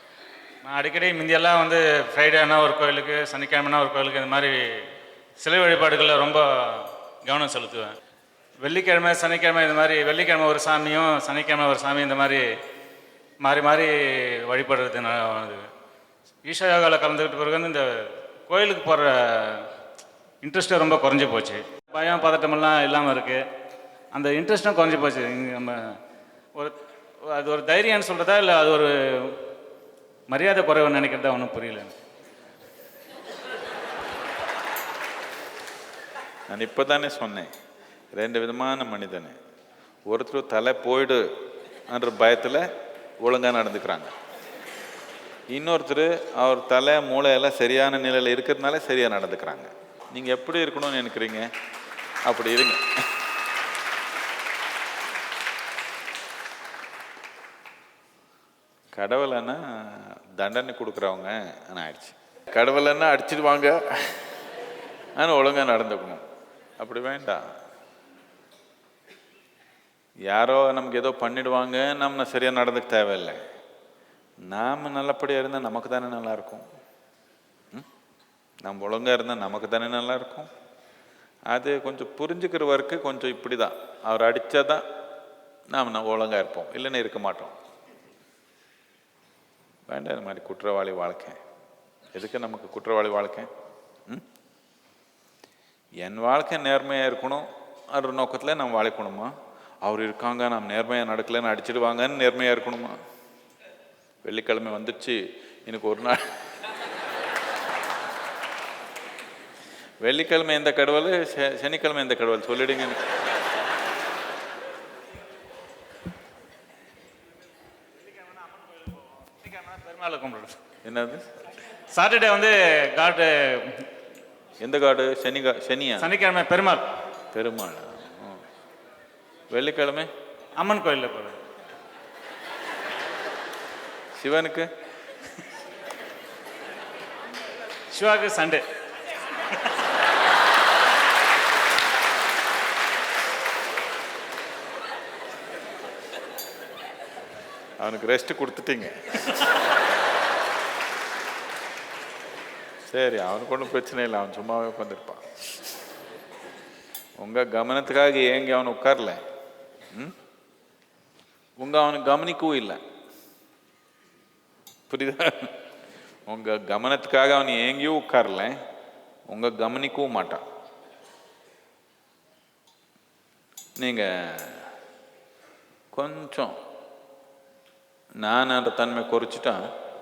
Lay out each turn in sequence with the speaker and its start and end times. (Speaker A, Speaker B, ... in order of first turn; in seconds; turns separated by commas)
Speaker A: 0.6-8.0, Speaker A: 8.6-12.6, Speaker A: 13.4-15.7, Speaker A: 16.4-19.7, Speaker A: 20.4-23.4, Speaker A: 24.1-26.0, Speaker A: 26.5-29.4, Speaker A: 30.3-32.0, Speaker B: 36.5-37.5, Speaker B: 38.1-39.4, Speaker B: 40.1-41.2, Speaker B: 41.9-42.7, Speaker B: 43.2-44.1, Speaker B: 45.5-51.5, Speaker B: 52.2-52.9, Speaker B: 59.0-64.3, Speaker B: 65.2-66.2, Speaker B: 66.8-67.4, Speaker B: 70.3-73.4, Speaker B: 74.5-76.7, Speaker B: 78.6-80.5, Speaker B: 81.5-84.8, Speaker B: 85.7-87.5, Speaker B: 89.9-91.4, Speaker B: 92.1-93.5, Speaker B: 96.0-103.0, Speaker B: 104.2-106.2, Speaker B: 110.0-113.1, Speaker A: 118.2-120.6, Speaker B: 120.8-121.2, Speaker A: 121.9-123.9, Speaker B: 124.6-126.1, Speaker A: 126.0-126.9, Speaker B: 127.3-128.4, Speaker B: 129.5-130.1, Speaker A: 130.6-131.4, Speaker B: 134.2-134.7, Speaker A: 137.9-138.6, Speaker B: 147.8-149.4, Speaker B: 152.8-155.3, Speaker B: 157.2-159.2, Speaker B: 161.6-162.8, Speaker B: 164.9-165.5, Speaker B: 166.3-168.6, Speaker B: 169.3-170.4, Speaker B: 173.8-174.7, Speaker B: 175.9-176.5, Speaker B: 178.2-179.6